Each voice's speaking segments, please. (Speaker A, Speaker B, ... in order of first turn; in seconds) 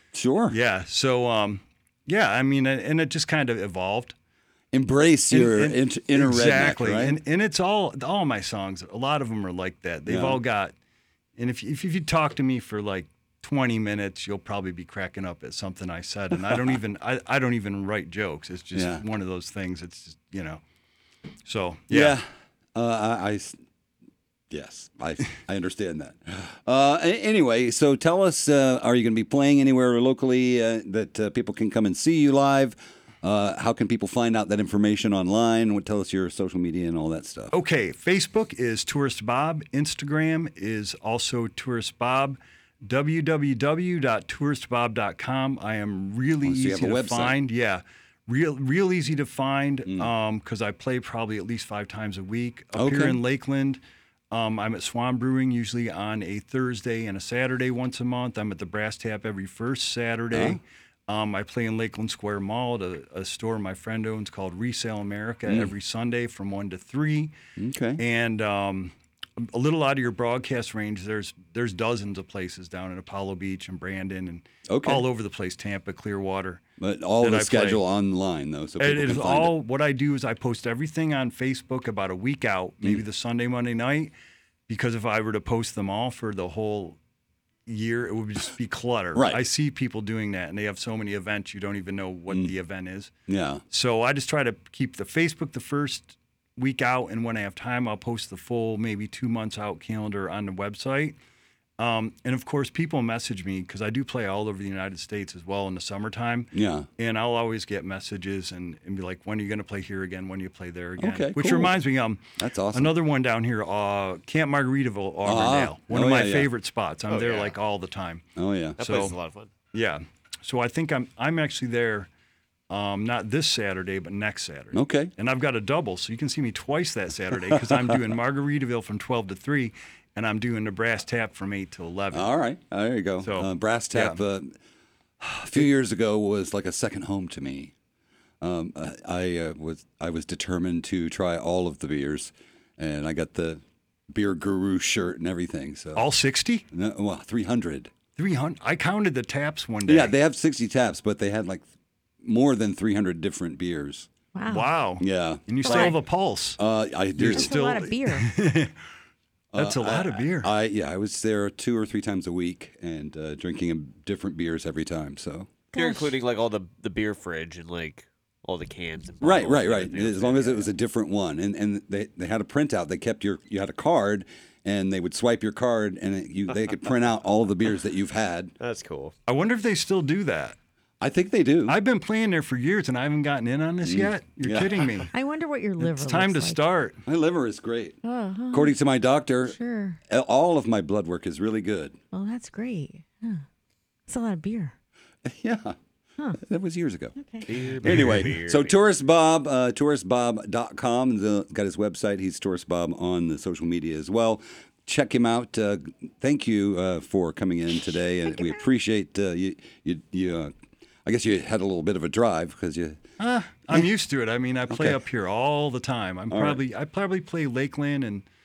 Speaker A: 0.1-0.6, 4.7-7.2, 10.1-10.4, 18.8-19.0, 21.9-23.6, 24.5-37.5, 46.4-47.3, 52.8-53.2, 60.3-60.6, 65.5-65.7, 67.6-68.0, 74.7-75.0, 76.8-79.5, 89.1-89.4, 93.3-93.6, 106.5-106.9, 111.0-111.8, 112.4-112.9, 115.2-116.5, 118.4-118.8, 124.7-125.1, 132.1-134.6, 135.2-137.7, 138.4-146.1, 146.7-147.9, 149.9-151.7, 152.2-154.1, 155.0-155.7, 156.6-157.5, 159.5-165.5, 169.2-178.5, 181.0-181.8, 183.8-184.8, 187.0-188.0, 188.5-189.6, 190.1-192.0, 195.2-195.8, 196.4-197.1, 197.8-210.5, 211.0-213.0, 214.7-215.0, 216.3-216.6
Speaker B: 0.5-4.1, 5.3-10.7, 11.4-20.6, 21.5-22.2, 37.5-53.8, 54.3-67.3, 68.0-76.6, 77.2-77.8, 78.8-84.1, 84.7-87.0, 87.7-93.1, 93.7-101.2, 101.8-118.2, 118.8-119.2, 119.7-122.1, 122.7-132.3, 133.2-134.2, 145.9-146.6, 148.2-150.1, 154.5-156.6, 157.2-158.7, 159.6-160.5, 179.2-180.6, 181.7-185.1, 185.8-187.0, 213.2-218.2
Speaker C: 117.1-117.6, 118.8-119.5, 165.8-170.7, 178.6-179.1, 197.5-198.8
Speaker D: 154.3-154.7, 155.6-155.9, 157.3-158.3, 165.7-166.1, 185.1-186.6, 188.0-188.8, 189.4-190.0, 192.1-193.4, 194.1-194.7, 197.2-197.5, 207.8-208.7